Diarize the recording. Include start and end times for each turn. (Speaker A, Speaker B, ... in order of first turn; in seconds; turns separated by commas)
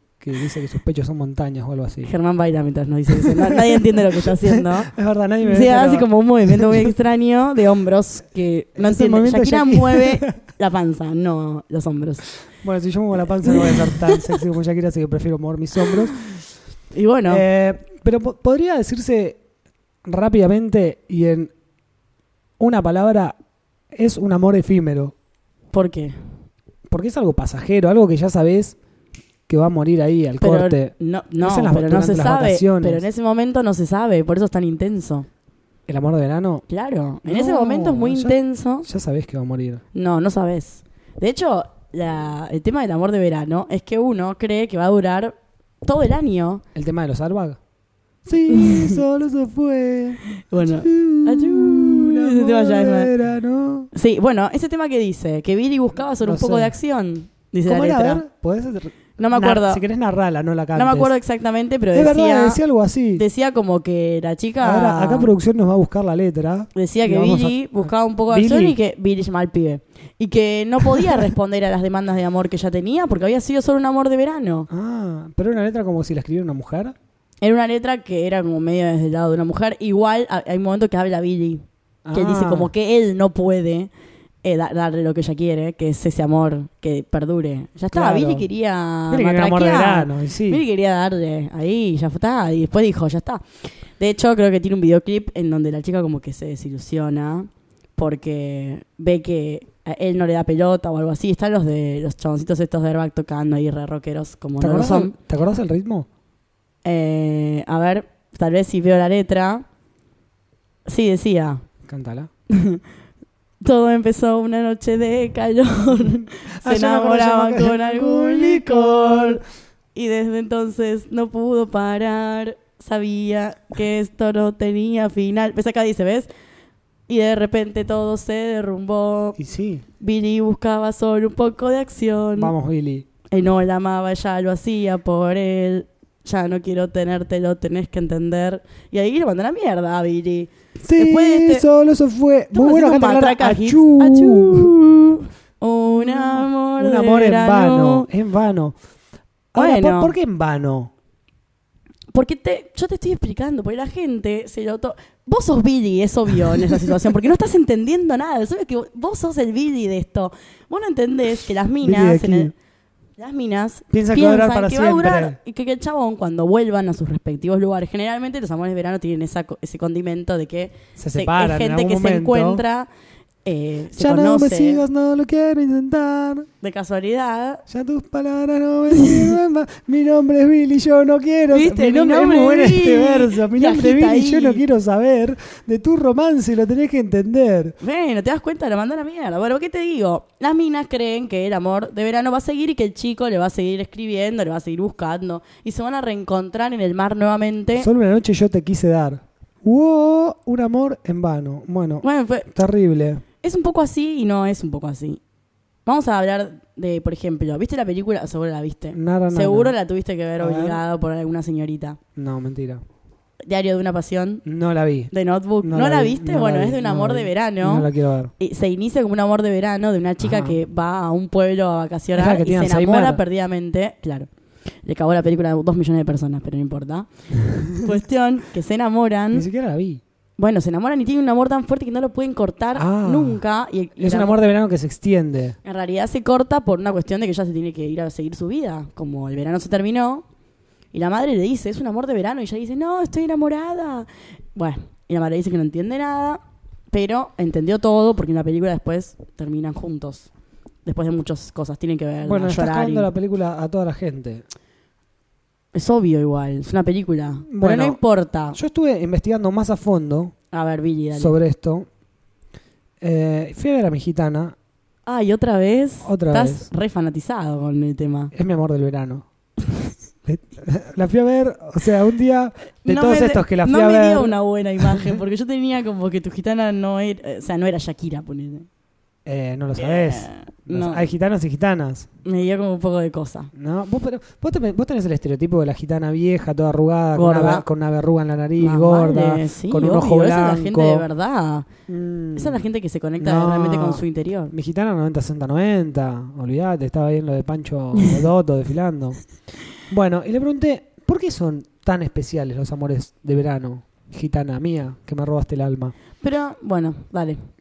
Speaker A: 0.2-2.1, Speaker B: 2.0-4.9, Speaker A: 3.2-6.9, Speaker B: 5.4-12.3, Speaker A: 8.8-10.3, Speaker A: 12.6-16.1, Speaker B: 13.4-14.4, Speaker B: 16.9-17.4, Speaker A: 17.3-19.4, Speaker A: 20.1-21.5, Speaker A: 22.6-23.4, Speaker A: 23.9-25.1, Speaker B: 25.7-26.2, Speaker A: 26.9-28.8, Speaker A: 29.5-33.0, Speaker B: 30.4-35.3, Speaker A: 35.9-36.6, Speaker B: 36.7-38.9, Speaker A: 37.3-39.8, Speaker B: 39.9-46.6, Speaker A: 46.8-47.6, Speaker A: 48.2-53.9, Speaker B: 48.5-49.0, Speaker B: 50.3-53.1, Speaker B: 53.9-58.2, Speaker A: 56.2-56.8, Speaker A: 57.6-61.1, Speaker B: 59.2-59.8, Speaker B: 60.8-62.6, Speaker A: 61.9-63.2, Speaker B: 63.2-65.3, Speaker A: 64.6-68.8, Speaker B: 66.8-74.7, Speaker A: 70.8-71.3, Speaker A: 74.7-77.0, Speaker B: 77.4-81.6, Speaker A: 82.0-82.7, Speaker B: 82.1-83.9, Speaker B: 84.4-93.4, Speaker A: 87.9-88.5, Speaker A: 89.1-90.6, Speaker B: 94.0-105.2, Speaker A: 104.6-106.1, Speaker B: 106.8-109.7, Speaker B: 110.9-111.6, Speaker A: 111.8-112.3, Speaker B: 112.5-112.8, Speaker B: 113.6-119.4, Speaker A: 116.5-119.4, Speaker B: 120.0-126.3, Speaker B: 127.1-129.4, Speaker A: 129.4-129.8, Speaker B: 130.0-132.5, Speaker A: 132.4-133.1, Speaker B: 133.3-141.7, Speaker A: 140.8-144.7, Speaker B: 142.5-148.1, Speaker A: 146.0-148.8, Speaker A: 149.5-150.9, Speaker B: 149.6-150.1, Speaker B: 152.1-162.5, Speaker A: 161.8-162.5, Speaker B: 163.2-172.9, Speaker A: 163.9-165.4, Speaker A: 171.0-172.6, Speaker B: 173.4-174.8, Speaker A: 173.9-176.5, Speaker B: 176.6-177.6, Speaker A: 177.7-187.8, Speaker B: 181.5-184.6, Speaker B: 187.8-197.9, Speaker A: 197.8-203.2, Speaker B: 202.0-202.5, Speaker B: 203.4-205.2, Speaker B: 205.9-212.0, Speaker A: 208.9-209.7, Speaker A: 210.4-210.8, Speaker A: 212.2-212.8, Speaker B: 213.5-214.4, Speaker A: 214.4-215.1, Speaker B: 215.1-224.3, Speaker A: 215.6-218.3, Speaker A: 220.2-220.6, Speaker A: 222.1-223.2, Speaker B: 224.8-227.1, Speaker B: 227.7-229.5, Speaker A: 229.3-230.0, Speaker B: 230.4-234.4, Speaker A: 232.8-233.4, Speaker A: 234.0-235.6, Speaker B: 235.7-240.2, Speaker B: 240.9-250.3, Speaker B: 250.8-253.1, Speaker A: 252.2-254.4, Speaker B: 255.7-258.6, Speaker A: 257.5-258.0, Speaker A: 258.5-260.3, Speaker B: 260.5-261.3, Speaker A: 261.1-261.9, Speaker A: 263.0-264.6, Speaker B: 265.1-268.3, Speaker A: 266.0-266.7, Speaker A: 268.3-269.3, Speaker A: 270.2-275.1, Speaker B: 272.9-278.7, Speaker A: 279.3-282.1, Speaker B: 279.8-281.1, Speaker B: 282.2-283.5, Speaker A: 283.6-291.1, Speaker B: 287.1-287.6, Speaker B: 288.6-291.7, Speaker A: 291.9-292.6, Speaker B: 292.4-294.5, Speaker A: 293.2-299.2, Speaker A: 299.9-305.9, Speaker B: 306.2-307.4